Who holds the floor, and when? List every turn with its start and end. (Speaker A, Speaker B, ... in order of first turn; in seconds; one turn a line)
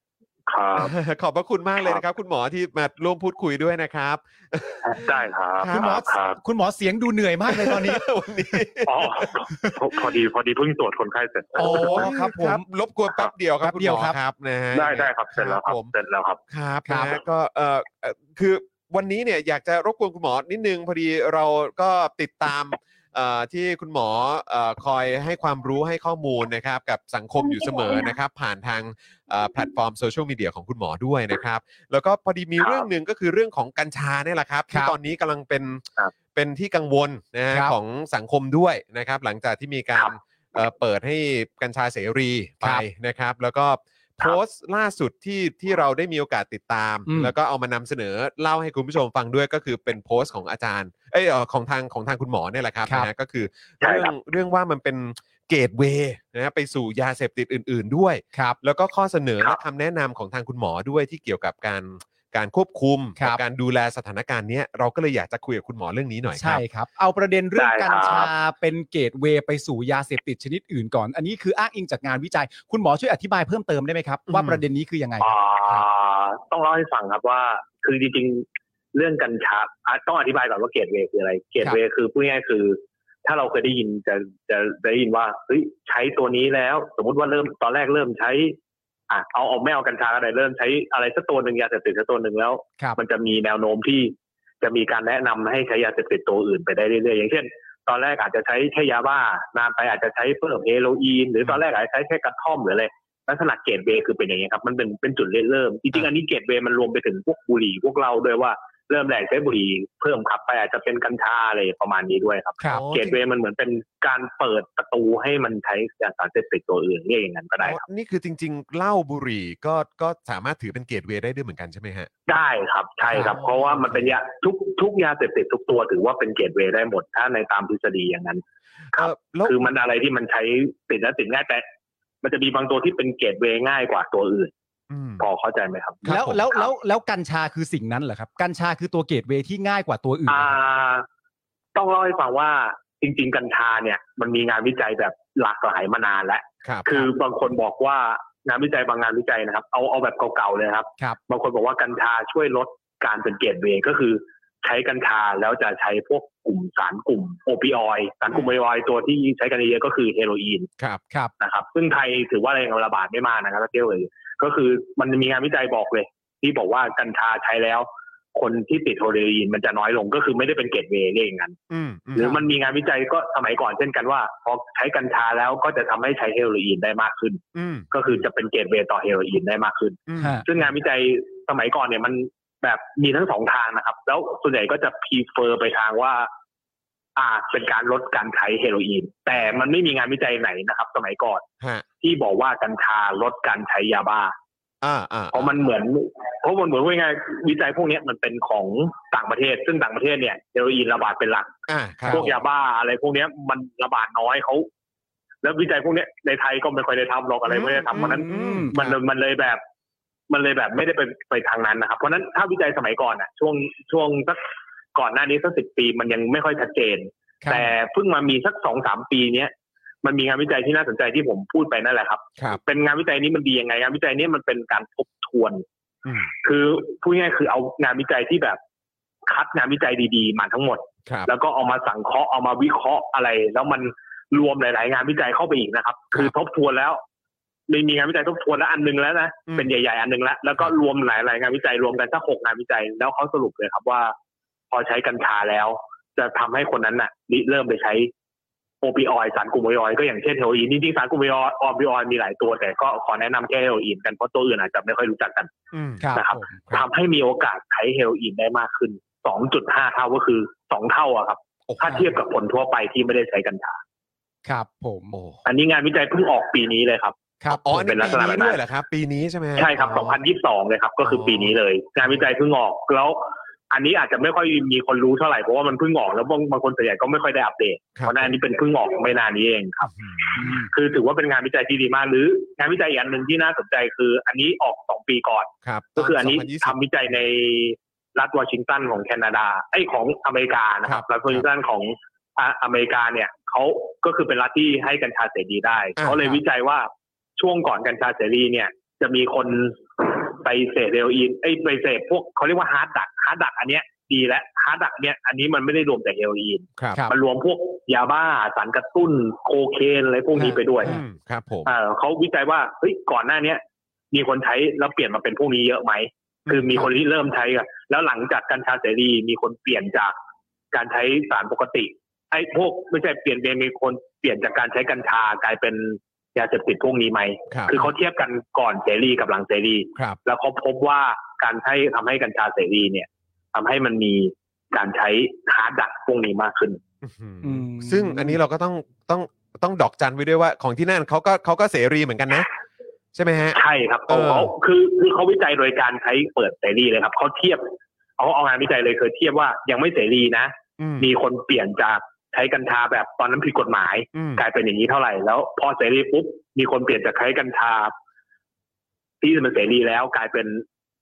Speaker A: 0.5-0.9
Speaker B: 0.8-6.0
Speaker A: 4.8-6.4
Speaker C: 5.7-8.0
Speaker B: 7.5-9.3
Speaker A: 8.9-12.1
Speaker C: 11.6-12.6
Speaker B: 11.6-15.9
Speaker C: 13.6-14.2
Speaker A: 14.7-16.4
Speaker B: 16.5-66.6
Speaker C: 16.9-17.2
Speaker A: 32.6-32.9
Speaker C: 47.1-47.3
Speaker A: 53.8-54.1
Speaker C: 66.3-75.8
Speaker A: 67.6-68.3
Speaker B: 74.3-74.6
Speaker A: 75.2-88.6
Speaker A: 89.1-117.8
Speaker B: 112.7-113.2
Speaker B: 117.6-122.1
Speaker A: 122.3-131.7
Speaker B: 123.1-124.1
Speaker B: 128.9-129.7
Speaker A: 132.2-134.5
Speaker B: 134.9-135.3
Speaker A: 135.2-136.6
Speaker B: 136.0-136.6
Speaker C: 136.1-140.5
Speaker A: 140.3-141.1
Speaker A: 141.8-160.7
Speaker B: 146.6-147.0
Speaker A: 161.4-171.6
Speaker B: 171.7-172.4
Speaker A: 172.2-186.3
Speaker C: 172.2-172.4
Speaker B: 177.6-178.2
Speaker B: 180.1-180.6
Speaker C: 180.2-180.5
Speaker A: 187.2-191.4
Speaker B: 189.3-189.6
Speaker A: 192.0-194.3
Speaker B: 194.8-195.6
Speaker A: 195.3-201.5
Speaker B: 201.7-202.4
Speaker A: 202.1-204.7
Speaker A: 205.4-209.6
Speaker B: 207.5-209.0
Speaker C: 207.9-208.8
Speaker A: 210.3-219.5
Speaker C: 217.4-217.7
Speaker A: 220.0-225.6
Speaker B: 226.1-226.3
Speaker A: 226.4-228.6
Speaker A: 229.3-237.0
Speaker B: 231.1-231.3
Speaker A: 237.7-244.2
Speaker A: 244.7-248.1
Speaker A: 248.8-255.5
Speaker B: 255.7-256.1
Speaker C: 256.0-256.6
Speaker A: 256.1-263.8
Speaker B: 261.7-262.1
Speaker C: 264.5-265.1
Speaker B: 265.1-265.4
Speaker A: 265.4-267.2
Speaker C: 267.4-267.7
Speaker B: 267.5-270.2
Speaker A: 267.7-268.6
Speaker A: 269.6-279.9
Speaker B: 271.0-272.3
Speaker B: 278.0-278.4
Speaker B: 279.9-280.4
Speaker C: 280.4-280.7
Speaker A: 280.7-310.9
Speaker B: 285.6-287.2
Speaker B: 290.9-291.5
Speaker B: 296.0-296.4
Speaker B: 306.8-307.0
Speaker C: 310.4-311.0
Speaker B: 310.8-311.7
Speaker A: 311.7-313.6
Speaker A: 314.1-320.1
Speaker B: 316.5-316.9
Speaker A: 320.7-336.8
Speaker B: 327.5-327.9
Speaker B: 337.0-342.5
Speaker C: 337.4-338.4
Speaker B: 343.1-344.5
Speaker A: 343.5-357.9
Speaker B: 350.8-351.1
Speaker B: 354.1-354.4
Speaker A: 359.2-360.6